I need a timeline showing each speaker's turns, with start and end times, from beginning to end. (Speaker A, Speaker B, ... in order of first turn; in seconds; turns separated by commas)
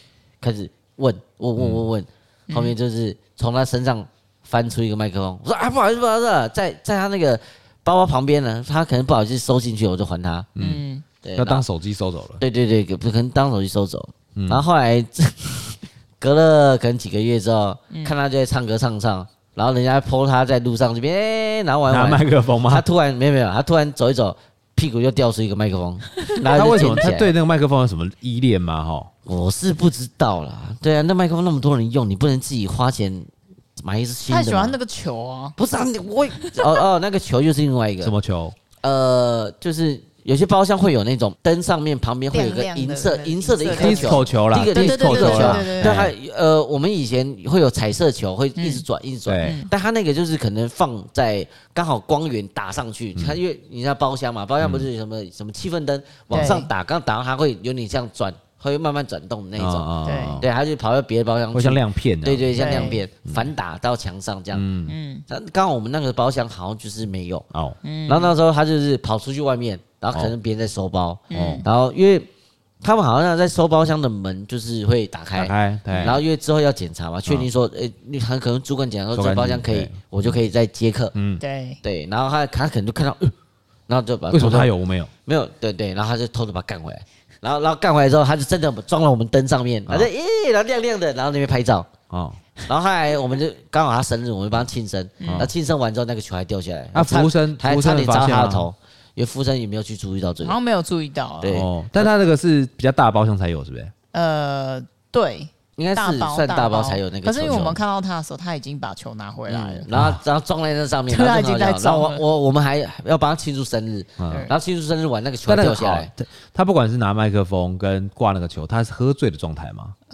Speaker A: 0.4-10.5, Speaker B: 1.6-1.9, Speaker C: 2.5-2.8, Speaker B: 10.6-10.8, Speaker C: 10.6-11.1, Speaker A: 11.2-11.7, Speaker B: 11.3-12.4, Speaker A: 12.4-27.3, Speaker B: 14.3-14.7, Speaker B: 21.9-22.9, Speaker C: 26.3-27.0, Speaker B: 26.5-29.1, Speaker A: 29.3-34.8, Speaker C: 34.3-35.6, Speaker A: 35.6-38.1, Speaker C: 36.4-36.8, Speaker B: 38.0-38.6, Speaker A: 38.8-64.7, Speaker C: 42.3-46.1, Speaker B: 43.7-46.1, Speaker C: 48.6-48.8, Speaker B: 49.3-49.6, Speaker C: 49.4-49.7, Speaker B: 54.6-54.9, Speaker C: 56.3-56.7, Speaker B: 59.6-60.5, Speaker C: 60.0-60.4, Speaker B: 61.5-63.5, Speaker C: 62.6-63.0, Speaker B: 64.5-65.0, Speaker C: 64.9-65.2, Speaker A: 65.3-67.5, Speaker B: 67.5-67.8, Speaker C: 67.8-68.3, Speaker A: 68.1-72.3, Speaker C: 71.3-71.7, Speaker B: 71.3-71.7, Speaker A: 72.8-81.1, Speaker B: 75.3-76.2, Speaker C: 75.9-76.2, Speaker B: 79.1-80.4, Speaker B: 81.2-81.4, Speaker C: 81.4-81.8, Speaker A: 81.8-83.3, Speaker A: 83.9-84.7, Speaker B: 84.3-85.1, Speaker A: 85.2-91.9, Speaker B: 92.1-92.4, Speaker A: 92.7-100.5, Speaker C: 95.2-95.5, Speaker B: 95.2-95.5, Speaker B: 96.9-98.7, Speaker C: 100.4-101.6, Speaker A: 101.4-102.1, Speaker B: 101.5-103.9, Speaker C: 104.1-109.9, Speaker A: 105.8-107.8, Speaker A: 109.5-116.1, Speaker B: 109.9-110.2, Speaker C: 111.1-112.2, Speaker B: 114.2-114.5, Speaker B: 115.5-120.0